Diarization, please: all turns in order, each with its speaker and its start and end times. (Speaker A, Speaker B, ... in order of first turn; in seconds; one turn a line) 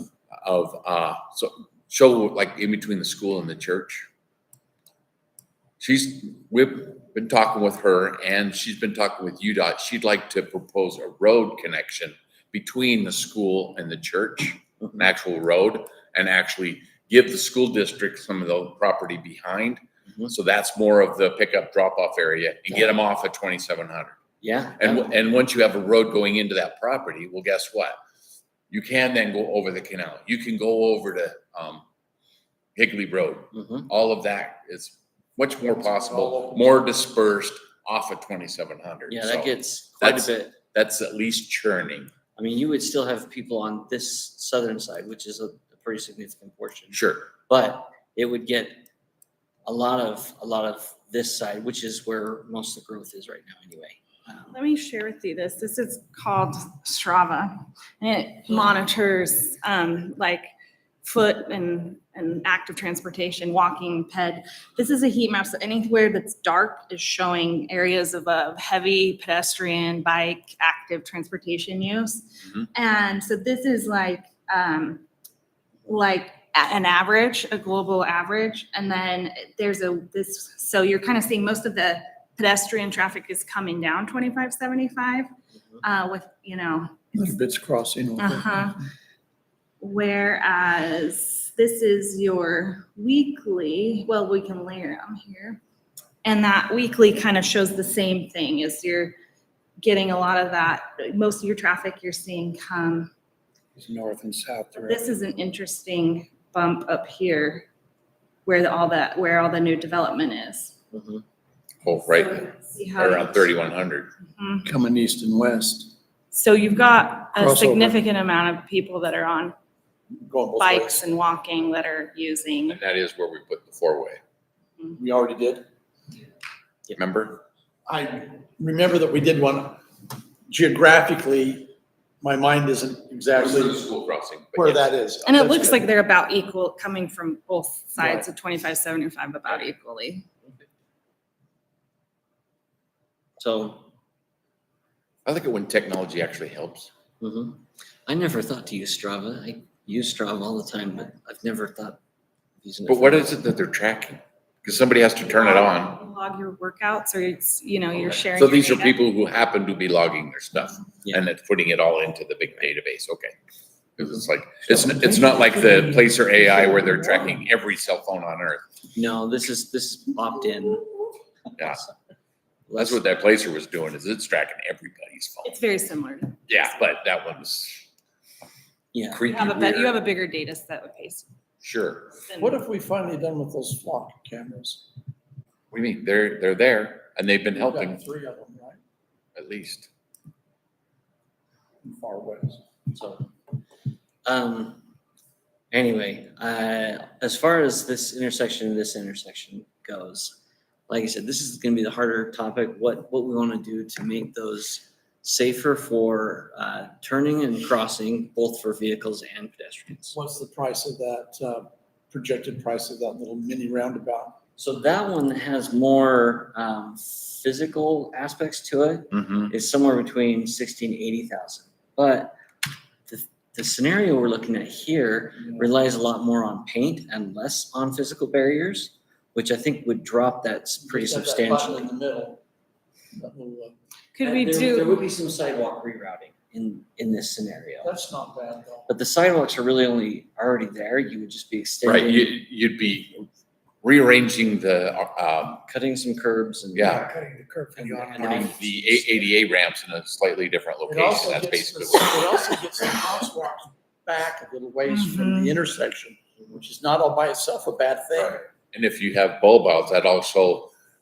Speaker A: 0.4-4.1
Speaker A: 5.8-24.1
Speaker B: 24.4-25.1
Speaker A: 24.8-28.0
Speaker A: 28.7-31.8
Speaker A: 32.8-42.1
Speaker B: 33.5-33.9
Speaker C: 35.7-36.8
Speaker B: 39.1-40.6
Speaker B: 42.4-48.8
Speaker A: 46.9-47.3
Speaker B: 49.6-54.5
Speaker D: 54.5-60.5
Speaker D: 61.0-75.0
Speaker D: 75.8-85.3
Speaker D: 85.8-87.1
Speaker C: 87.1-88.7
Speaker D: 88.2-88.8
Speaker D: 89.8-95.6
Speaker D: 96.2-99.2
Speaker D: 99.8-103.1
Speaker C: 103.8-105.0
Speaker D: 104.8-107.7
Speaker D: 108.4-110.7
Speaker B: 110.9-111.2
Speaker A: 111.8-114.1
Speaker D: 112.1-113.5
Speaker D: 114.3-114.7
Speaker C: 114.6-115.9
Speaker D: 116.3-119.5
Speaker C: 117.3-118.0
Speaker C: 120.2-121.0
Speaker D: 120.6-122.8
Speaker A: 122.7-124.2
Speaker C: 124.9-125.6
Speaker A: 126.9-127.4
Speaker C: 127.8-129.8
Speaker C: 130.5-133.8
Speaker A: 133.3-134.8
Speaker C: 134.5-135.8
Speaker D: 135.2-140.2
Speaker C: 138.0-138.2
Speaker B: 143.4-143.9
Speaker A: 145.2-146.9
Speaker B: 147.2-152.0
Speaker B: 152.6-153.4
Speaker A: 152.8-156.0
Speaker D: 155.3-159.0
Speaker A: 157.9-163.3
Speaker A: 164.0-168.6
Speaker C: 165.0-166.0
Speaker B: 168.9-171.0
Speaker A: 171.6-171.9
Speaker B: 172.7-173.0
Speaker A: 172.8-175.5
Speaker D: 175.4-176.5
Speaker A: 176.5-177.9
Speaker B: 178.9-179.2
Speaker A: 179.1-179.9
Speaker D: 179.3-181.2
Speaker A: 181.6-182.2
Speaker D: 182.2-182.6
Speaker C: 182.4-184.8
Speaker A: 185.7-188.0
Speaker C: 187.5-188.8
Speaker A: 189.3-189.9
Speaker C: 191.8-192.6
Speaker B: 192.9-193.3
Speaker B: 194.2-194.8
Speaker B: 195.7-210.1
Speaker C: 210.1-214.4
Speaker B: 214.6-222.3
Speaker A: 219.1-219.5
Speaker B: 223.1-231.9
Speaker C: 230.8-232.4
Speaker C: 233.1-233.8
Speaker D: 234.1-235.0
Speaker B: 234.2-237.9
Speaker C: 237.8-238.9
Speaker B: 238.9-242.3
Speaker A: 241.8-243.3
Speaker A: 243.8-245.6
Speaker B: 245.7-247.1
Speaker A: 246.7-247.1
Speaker C: 246.9-248.7
Speaker B: 247.8-248.5
Speaker A: 248.2-252.5
Speaker C: 250.8-258.4
Speaker D: 254.9-255.5
Speaker A: 258.1-260.7